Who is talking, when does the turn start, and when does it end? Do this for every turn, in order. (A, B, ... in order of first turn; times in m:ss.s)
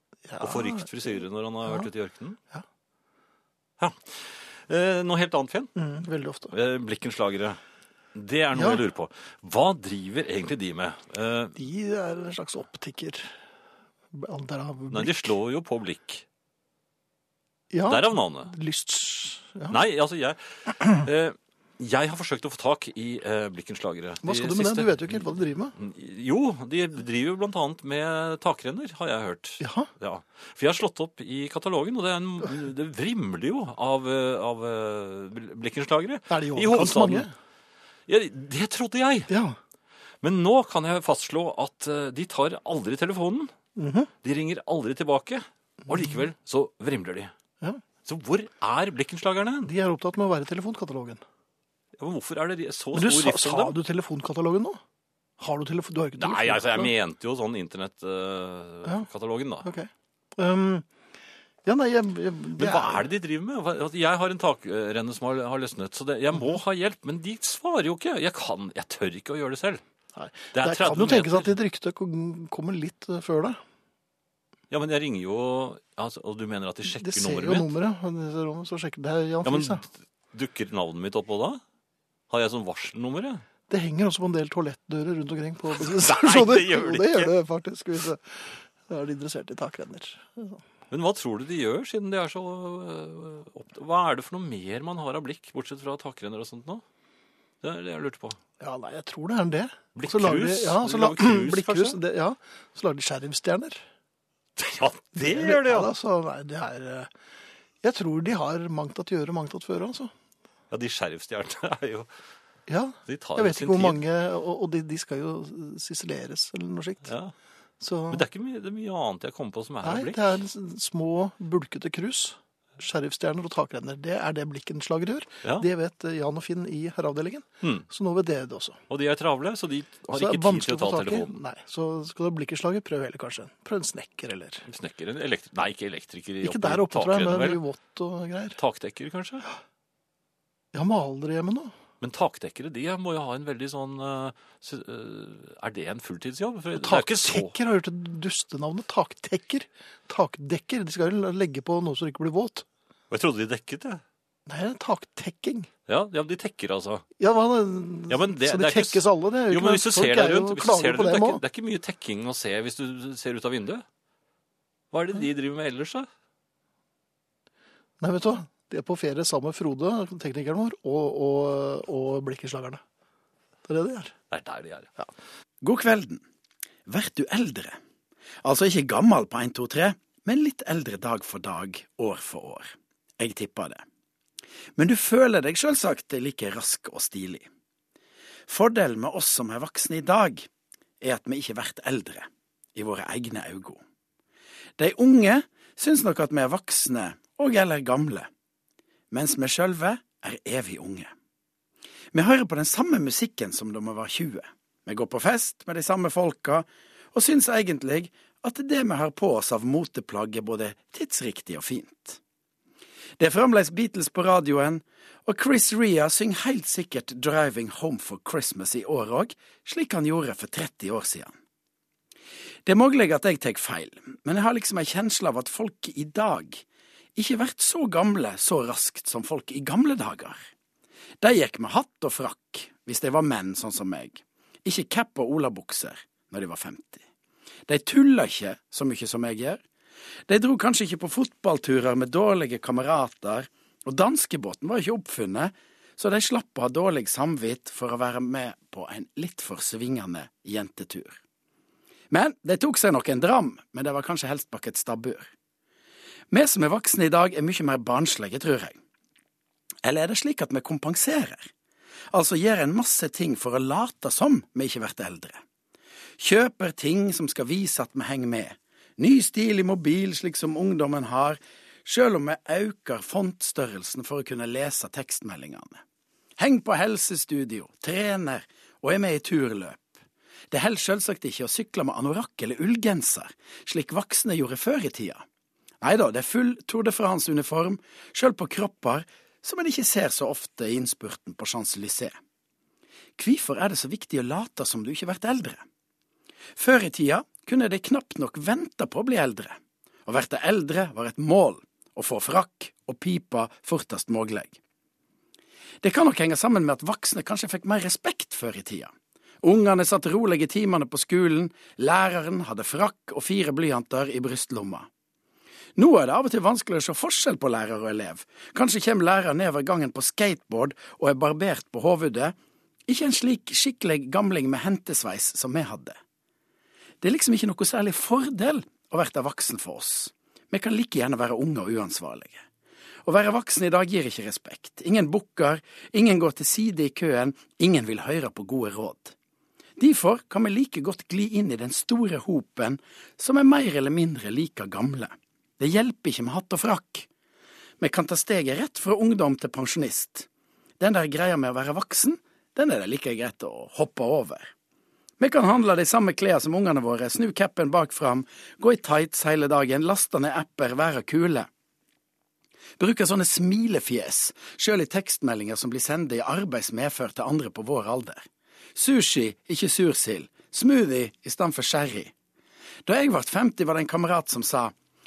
0:00.3-0:00.9 A
0:00.4-0:02.4 B
0:03.8-0:05.7 B
0:05.8-0:06.5 A
0:06.5-0:07.6 B
0:08.1-0:11.6 B
0:08.5-0:08.8 A
0:11.6-0:13.3 A
0:14.1-0:15.3 A
0:14.9-0:16.2 B
0:17.7-0:19.8 A
0:17.9-0:18.5 B
0:19.7-0:25.2 B
0:24.2-0:25.7 A
0:25.8-0:37.3 B
0:29.6-0:29.9 A
0:36.3-0:37.3 A
0:38.1-0:39.3 B
0:39.3-0:39.6 A
0:40.2-0:43.5 B
0:43.8-0:44.1 A
0:44.2-0:47.3 B
0:48.0-0:49.7 B
0:49.6-0:51.2 A
0:52.0-0:53.8 B
0:52.9-0:54.8 A
0:55.4-0:56.9 A
0:56.2-0:59.7 B
0:59.6-1:00.9 A
1:01.6-1:03.0 A
1:02.6-1:09.8 B
1:10.2-1:13.6 A
1:10.5-1:11.6 B
1:14.7-1:17.7 B
1:16.9-1:19.8 A
1:19.4-1:21.6 B
1:22.3-1:23.4 B
1:23.7-1:30.6 A
1:25.8-1:27.3 B
1:30.9-1:36.8 B
1:37.6-1:38.4 B
1:38.6-1:43.8 A
1:40.0-1:42.0 B
1:44.6-1:45.9 B
1:45.2-1:47.1 A
1:47.8-1:50.1 A
1:50.7-1:52.1 B
1:52.7-1:57.1 A
1:53.1-1:54.0 B
1:57.0-1:57.3 B
1:57.8-1:58.2 A
1:58.1-2:00.4 B
1:59.8-2:08.8 A
2:08.9-2:11.4 B
2:10.1-2:14.6 A
2:14.7-2:17.6 B
2:16.4-2:18.6 A
2:18.6-2:19.4 B
2:20.7-2:21.7 A
2:22.0-2:27.5 B
2:26.8-2:32.6 A
2:33.1-2:34.0 B
2:34.5-2:35.7 A
2:35.9-2:37.0 B
2:37.2-2:41.4 A
2:38.1-2:43.8 B
2:44.9-2:46.1 B
2:48.0-2:52.8 A
2:53.7-2:54.1 A
2:54.3-2:54.9 B
2:55.6-2:56.2 C
2:56.8-2:57.8 C
2:58.4-3:03.8 C
3:04.8-3:07.5 C
3:08.5-3:10.5 C
3:11.0-3:13.8 C
3:14.8-3:18.3 C
3:19.1-3:21.1 C
3:22.1-3:32.2 C
3:33.2-3:41.3 C
3:42.6-3:46.6 C
3:47.1-3:50.4 C
3:51.2-3:57.0 C
3:57.7-3:59.6 C
4:00.3-4:11.2 C
4:12.1-4:15.3 C
4:16.3-4:18.8 C
4:19.8-4:21.5 C
4:22.1-4:25.4 C
4:26.2-4:35.8 C
4:36.4-4:39.9 C
4:40.5-4:45.2 C
4:45.8-4:52.1 C
4:53.2-4:55.6 C
4:56.6-5:04.6 C
5:05.8-5:08.9 C
5:09.4-5:14.9 C
5:15.8-5:22.3 C
5:22.9-5:26.0 C
5:27.0-5:32.4 C
5:33.0-5:39.1 C
5:39.8-5:47.1 C
5:47.8-5:50.3 C
5:50.8-5:54.5 C
5:55.2-6:01.5 C
6:02.8-6:12.1 C
6:12.8-6:14.7 C